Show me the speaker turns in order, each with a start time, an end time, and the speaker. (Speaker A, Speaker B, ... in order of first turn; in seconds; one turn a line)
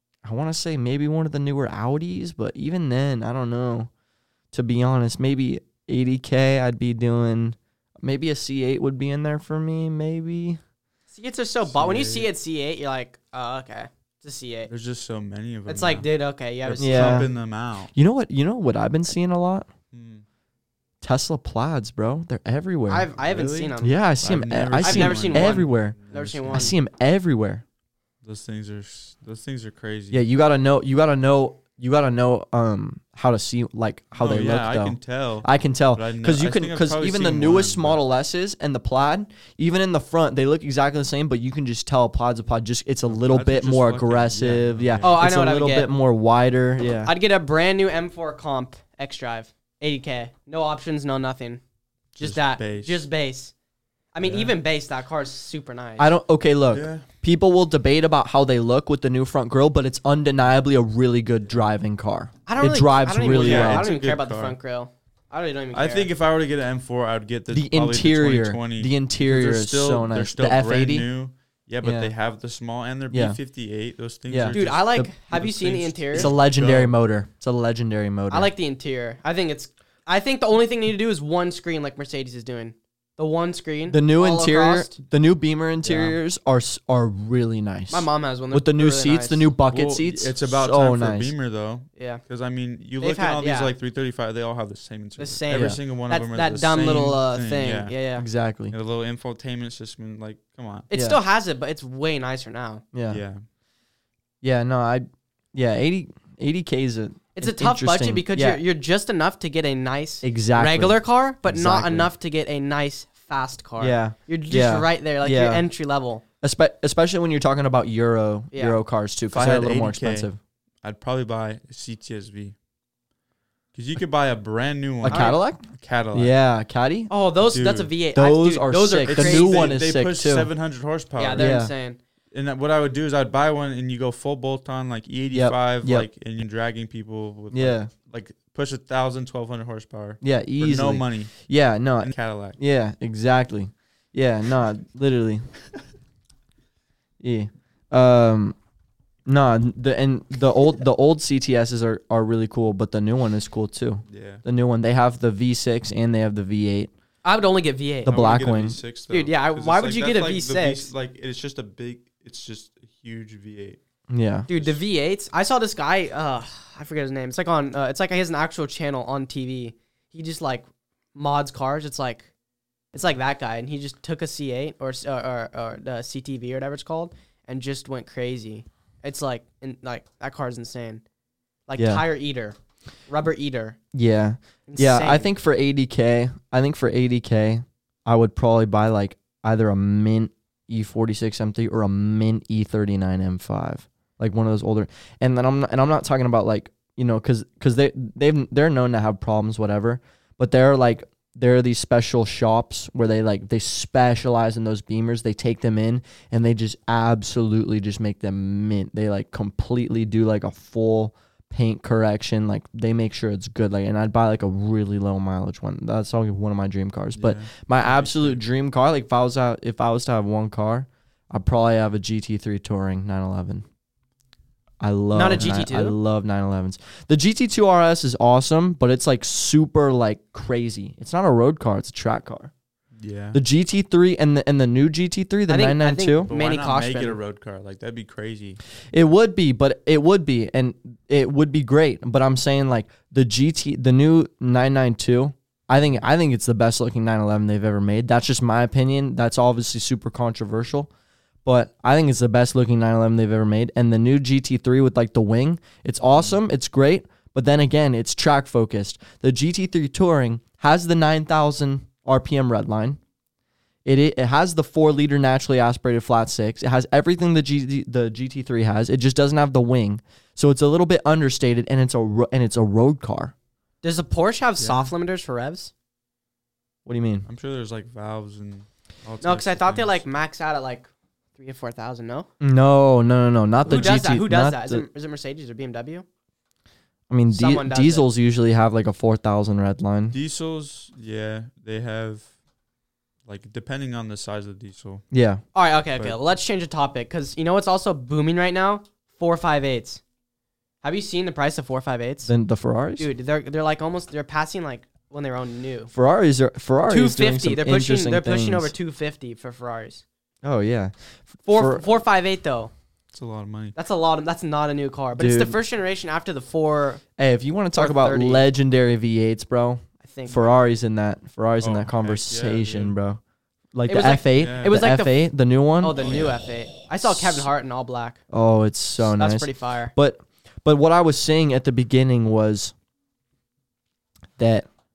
Speaker A: 0.2-3.9
Speaker A: 4.5-10.6
Speaker B: 11.1-14.7
Speaker C: 11.7-12.3
Speaker C: 14.7-16.1
Speaker B: 15.7-17.3
Speaker C: 16.6-17.9
Speaker A: 16.8-17.3
Speaker A: 17.9-19.7
Speaker C: 19.9-20.2
Speaker A: 21.0-23.1
Speaker B: 22.9-23.9
Speaker C: 23.2-26.7
Speaker A: 23.8-25.9
Speaker B: 24.8-26.7
Speaker A: 26.5-27.6
Speaker C: 28.2-30.2
Speaker A: 30.1-47.1
Speaker C: 34.1-38.0
Speaker C: 43.1-45.3
Speaker B: 45.0-45.9
Speaker B: 47.0-51.6
Speaker C: 52.1-53.1
Speaker B: 52.2-53.5
Speaker B: 54.1-56.1
Speaker C: 54.2-54.5
Speaker A: 56.0-63.9
Speaker C: 56.7-57.0
Speaker B: 62.5-66.1
Speaker C: 63.3-64.6
Speaker C: 65.7-76.9
Speaker A: 67.5-71.1
Speaker A: 71.8-72.1
Speaker A: 73.1-73.4
Speaker A: 74.3-75.1
Speaker B: 74.5-76.3
Speaker A: 76.1-78.5
Speaker B: 78.3-85.0
Speaker A: 83.9-91.3
Speaker C: 85.8-86.2
Speaker B: 87.9-89.5
Speaker C: 89.7-97.9
Speaker B: 92.0-92.2
Speaker B: 93.0-93.7
Speaker B: 95.2-98.2
Speaker A: 95.5-95.8
Speaker A: 98.2-98.7
Speaker C: 98.7-100.9
Speaker B: 100.9-102.8
Speaker A: 100.9-101.2
Speaker A: 102.9-103.2
Speaker C: 103.1-103.4
Speaker A: 104.4-108.6
Speaker B: 107.3-116.2
Speaker A: 110.2-112.1
Speaker A: 113.8-115.6
Speaker A: 116.4-120.4
Speaker B: 118.5-118.8
Speaker C: 119.3-120.3
Speaker C: 120.8-122.5
Speaker C: 123.7-126.3
Speaker A: 125.0-125.6
Speaker B: 125.1-125.4
Speaker A: 126.1-127.1
Speaker B: 127.1-129.8
Speaker C: 127.5-127.9
Speaker A: 128.1-130.5
Speaker C: 129.1-131.5
Speaker B: 131.2-132.0
Speaker A: 131.3-131.7
Speaker C: 132.3-141.3
Speaker A: 135.3-136.1
Speaker A: 137.5-137.9
Speaker A: 140.2-145.4
Speaker C: 142.0-142.6
Speaker A: 147.2-148.6
Speaker A: 149.3-156.9
Speaker C: 154.1-154.4
Speaker B: 157.2-158.2
Speaker A: 158.1-158.8
Speaker C: 158.1-163.8
Speaker B: 159.1-160.9
Speaker A: 164.1-164.5
Speaker B: 164.5-172.3
Speaker C: 164.5-164.8
Speaker B: 172.9-181.0
Speaker B: 181.7-182.6
Speaker A: 181.8-182.0
Speaker B: 183.1-183.8
Speaker A: 183.9-223.6
Speaker B: 184.7-185.3
Speaker C: 217.2-218.4
Speaker A: 224.8-232.5
Speaker B: 225.1-225.9
Speaker C: 233.0-233.4
Speaker A: 233.3-236.3
Speaker B: 235.5-237.2
Speaker C: 236.3-238.6
Speaker A: 238.9-250.9
Speaker A: 251.4-263.0
Speaker A: 263.8-273.3
Speaker B: 273.8-275.7
Speaker C: 274.6-274.9
Speaker A: 276.9-277.2
Speaker C: 277.2-280.0
Speaker B: 279.2-282.3
Speaker A: 282.4-284.9
Speaker B: 283.6-286.0
Speaker A: 287.1-290.1
Speaker B: 287.3-288.1
Speaker C: 290.1-292.3
Speaker C: 293.2-295.0
Speaker A: 295.1-295.4
Speaker B: 295.5-300.0
Speaker B: 300.8-302.3
Speaker A: 302.2-303.1
Speaker B: 303.0-305.9
Speaker A: 305.9-308.7
Speaker B: 306.9-310.0
Speaker A: 310.4-311.8
Speaker B: 311.5-312.7
Speaker C: 313.1-313.7
Speaker B: 313.7-317.0
Speaker A: 315.2-315.6
Speaker A: 317.2-323.2
Speaker B: 317.7-318.4
Speaker B: 320.0-320.4
Speaker C: 321.6-322.9
Speaker A: 323.7-326.3
Speaker B: 323.9-325.2
Speaker C: 324.4-324.7
Speaker B: 325.8-328.2
Speaker C: 326.0-326.3
Speaker A: 327.0-327.4
Speaker A: 328.3-332.7
Speaker B: 329.0-329.9
Speaker A: 334.4-334.6